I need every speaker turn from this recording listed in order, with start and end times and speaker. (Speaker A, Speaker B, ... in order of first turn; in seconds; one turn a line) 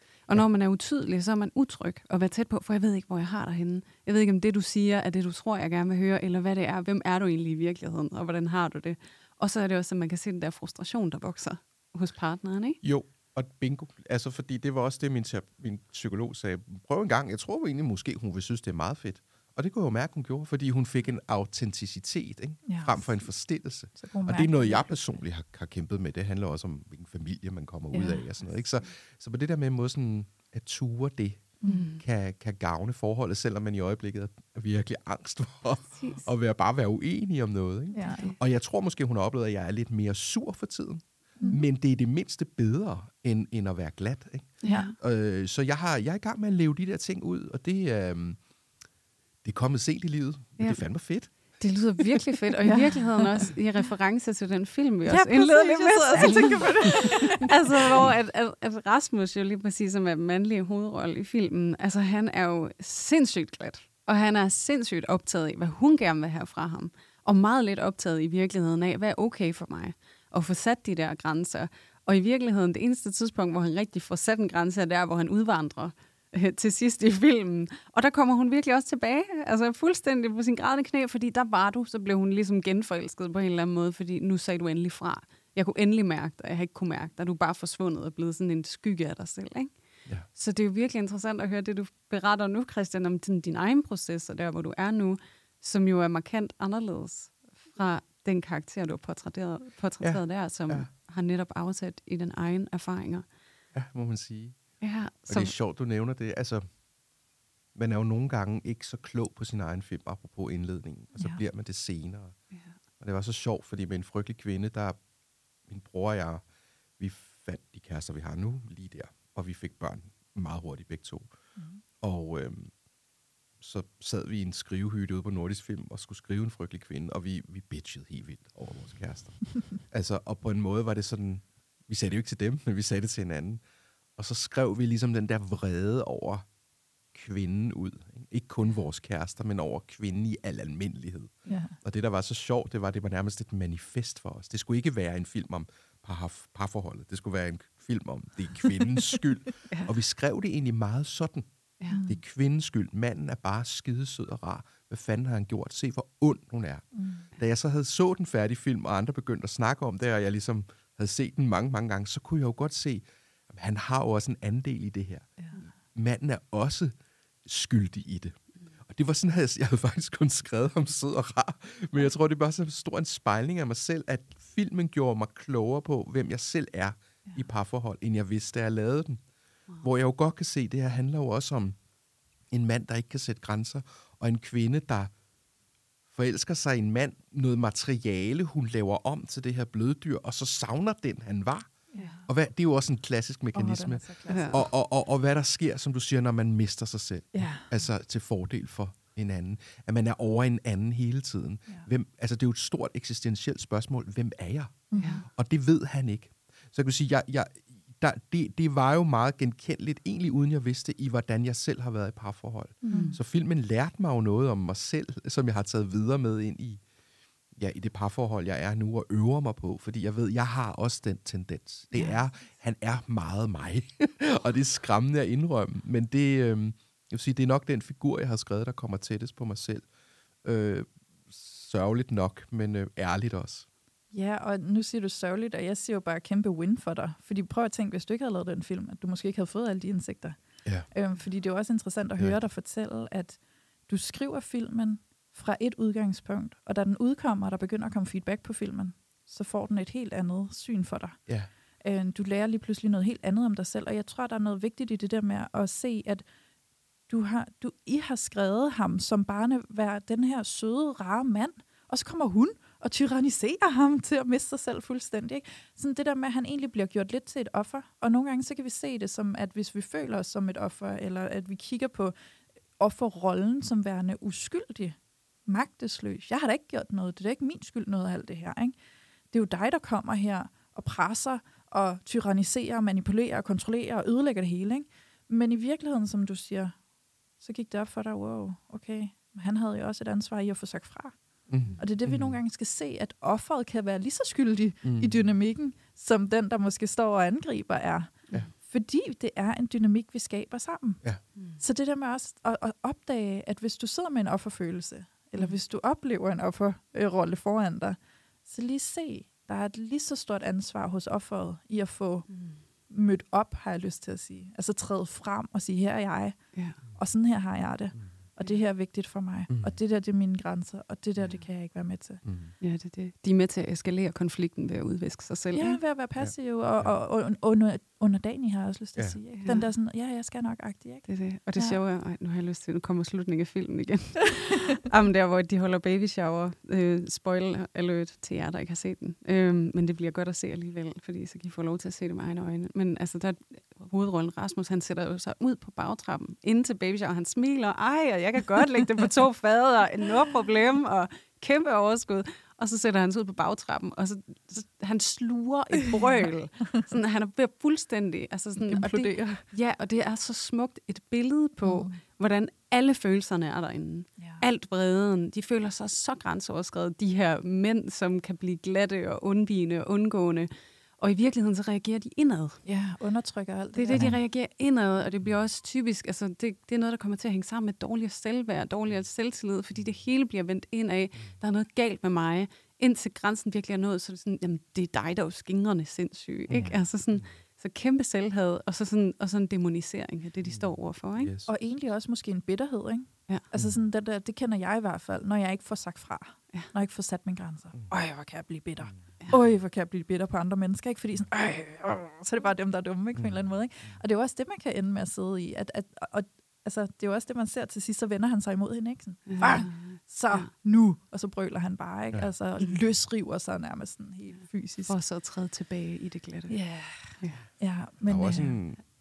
Speaker A: 0.3-12.8
Speaker B: 12.8-48.4
Speaker C: 22.6-23.1
Speaker C: 23.9-24.9
Speaker C: 27.9-28.2
Speaker C: 31.6-31.9
Speaker A: 31.7-32.0
Speaker A: 35.9-36.3
Speaker C: 37.9-38.3
Speaker A: 38.0-38.4
Speaker C: 41.4-41.6
Speaker A: 44.6-45.0
Speaker C: 44.6-44.9
Speaker B: 49.4-51.3
Speaker A: 51.6-89.7
Speaker C: 52.7-53.3
Speaker C: 55.1-58.0
Speaker A: 90.3-103.3
Speaker B: 100.0-100.9
Speaker B: 103.7-104.6
Speaker A: 104.8-105.5
Speaker B: 105.3-106.6
Speaker B: 107.8-112.3
Speaker A: 112.5-112.8
Speaker B: 113.0-115.0
Speaker B: 115.7-116.4
Speaker B: 117.0-121.3
Speaker C: 121.6-121.8
Speaker B: 122.0-122.7
Speaker B: 123.6-133.6
Speaker B: 134.2-136.5
Speaker B: 137.1-151.5
Speaker C: 141.5-141.8
Speaker C: 151.9-152.2
Speaker B: 152.1-166.9
Speaker C: 156.9-157.3
Speaker C: 165.4-165.7
Speaker B: 167.4-168.4
Speaker B: 168.9-179.2
Speaker B: 179.8-181.8
Speaker B: 182.5-185.1
Speaker B: 186.1-191.7
Speaker C: 191.9-192.3
Speaker B: 192.3-216.8
Speaker C: 193.5-194.6
Speaker A: 194.3-194.6
Speaker C: 197.3-197.7
Speaker C: 204.9-205.2
Speaker A: 205.0-205.2
Speaker A: 212.8-213.2
Speaker C: 212.9-213.2
Speaker B: 217.6-229.9
Speaker B: 230.4-233.7
Speaker C: 234.1-240.4
Speaker C: 240.9-251.2
Speaker C: 251.8-256.2
Speaker C: 257.1-272.1
Speaker C: 272.8-278.8
Speaker C: 279.3-286.8
Speaker C: 287.4-291.2
Speaker B: 291.5-292.4
Speaker C: 291.8-301.0
Speaker B: 294.8-295.2
Speaker A: 301.4-301.6
Speaker C: 301.6-312.3
Speaker A: 312.3-312.6
Speaker C: 312.9-322.2
Speaker A: 316.5-316.8
Speaker B: 319.5-319.8
Speaker B: 322.2-322.5
Speaker A: 322.6-325.8
Speaker C: 325.5-331.8
Speaker B: 326.2-326.9
Speaker A: 329.4-329.7
Speaker A: 331.1-372.6
Speaker C: 358.6-359.5
Speaker C: 361.6-362.0
Speaker C: 364.2-364.4
Speaker C: 372.6-374.2
Speaker A: 373.7-391.3
Speaker B: 386.5-387.3
Speaker B: 390.4-391.6
Speaker C: 391.5-415.0
Speaker B: 403.2-404.0
Speaker A: 409.3-410.5
Speaker A: 414.9-416.6
Speaker C: 416.5-418.6
Speaker A: 417.2-417.5
Speaker B: 418.1-418.8